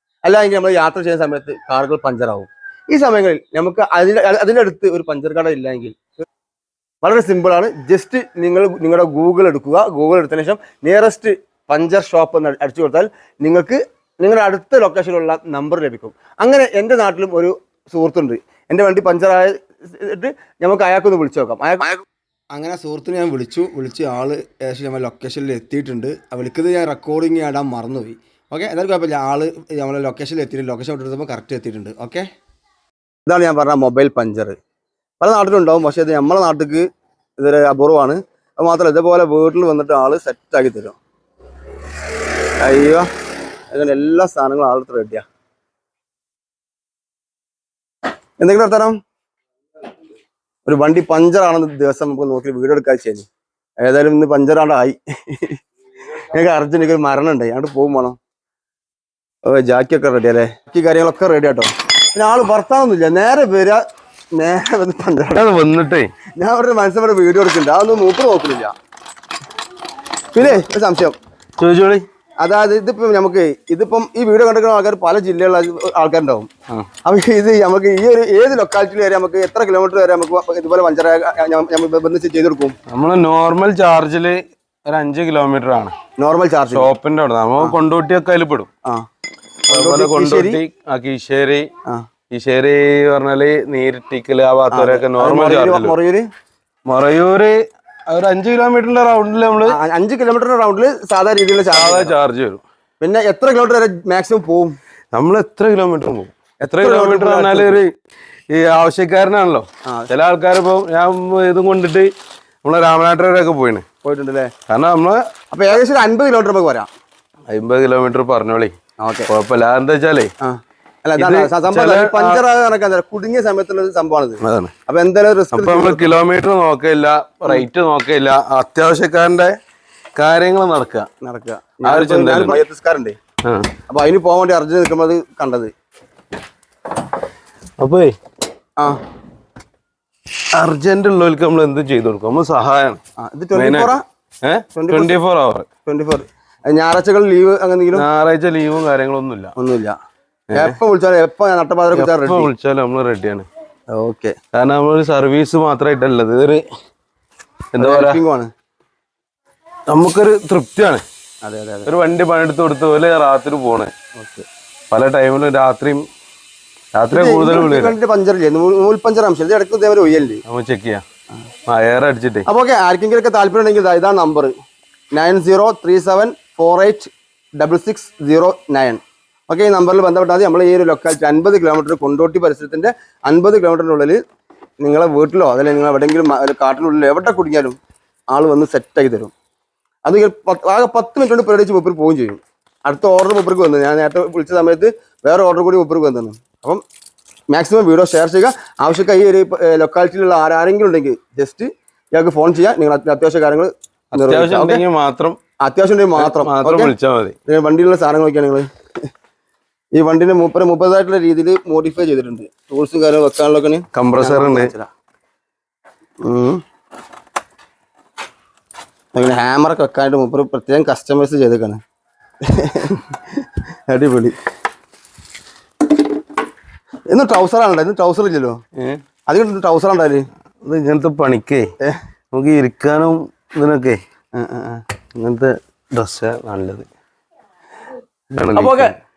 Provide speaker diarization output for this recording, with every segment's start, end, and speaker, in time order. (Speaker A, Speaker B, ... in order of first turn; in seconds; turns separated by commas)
Speaker A: 0.2-6.0, Speaker A: 7.0-22.0, Speaker A: 22.5-32.3, Speaker A: 33.3-34.6, Speaker A: 35.2-36.9, Speaker A: 37.4-41.0, Speaker A: 42.6-43.1, Speaker A: 43.7-45.2, Speaker A: 48.4-49.0, Speaker A: 50.7-53.3, Speaker A: 53.8-55.6, Speaker A: 56.3-58.2, Speaker A: 59.5-63.8, Speaker A: 64.3-65.5, Speaker B: 65.3-66.1, Speaker A: 66.4-68.7, Speaker A: 70.3-71.2, Speaker B: 71.6-72.0, Speaker A: 72.4-76.5, Speaker A: 77.0-82.8, Speaker B: 82.9-86.0, Speaker A: 86.2-86.9, Speaker B: 86.7-88.7, Speaker B: 89.7-91.7, Speaker A: 89.7-90.6, Speaker B: 92.3-95.9, Speaker A: 94.7-96.3, Speaker B: 96.9-99.8, Speaker A: 99.6-102.1, Speaker B: 101.7-102.6, Speaker A: 103.0-104.8, Speaker B: 105.1-107.9, Speaker A: 106.6-107.8, Speaker B: 108.5-112.1, Speaker B: 112.6-113.8, Speaker A: 114.0-114.5, Speaker B: 114.7-115.2, Speaker A: 115.5-116.9, Speaker B: 117.5-118.7, Speaker A: 119.0-119.3, Speaker B: 119.3-120.3, Speaker A: 120.4-126.1, Speaker B: 121.2-122.4, Speaker B: 124.4-124.7, Speaker B: 125.5-129.6, Speaker B: 130.2-131.1, Speaker A: 131.2-133.2, Speaker B: 131.8-132.6, Speaker B: 133.4-133.7, Speaker A: 133.9-135.7, Speaker B: 137.8-138.2, Speaker B: 140.6-143.0, Speaker A: 143.2-144.0, Speaker B: 143.5-145.7, Speaker A: 144.8-145.2, Speaker A: 145.8-148.1, Speaker B: 147.9-149.5, Speaker A: 149.6-150.0, Speaker B: 150.5-150.8, Speaker A: 150.5-152.5, Speaker B: 151.9-153.5, Speaker A: 153.9-154.4, Speaker B: 154.5-156.6, Speaker B: 157.7-158.2, Speaker A: 157.8-158.5, Speaker B: 159.9-161.0, Speaker A: 161.4-161.9, Speaker B: 161.9-163.9, Speaker A: 164.2-164.5, Speaker B: 164.9-166.1, Speaker B: 167.0-167.9, Speaker A: 167.1-170.4, Speaker B: 170.5-171.0, Speaker B: 171.7-172.5, Speaker A: 172.5-174.5, Speaker A: 175.2-184.2, Speaker A: 184.8-187.8, Speaker A: 188.3-189.3, Speaker A: 190.1-196.8, Speaker A: 197.5-204.8, Speaker B: 204.1-205.4, Speaker A: 205.6-206.9, Speaker B: 206.2-207.3, Speaker A: 207.5-208.7, Speaker A: 209.9-214.9, Speaker B: 213.9-214.7, Speaker A: 216.2-216.6, Speaker A: 219.1-221.8, Speaker A: 222.4-223.2, Speaker A: 223.9-224.4, Speaker A: 227.1-228.6, Speaker A: 229.3-230.2, Speaker B: 230.6-231.7, Speaker B: 232.3-234.0, Speaker A: 234.4-234.8, Speaker B: 235.2-236.9, Speaker B: 238.3-239.0, Speaker A: 238.6-239.0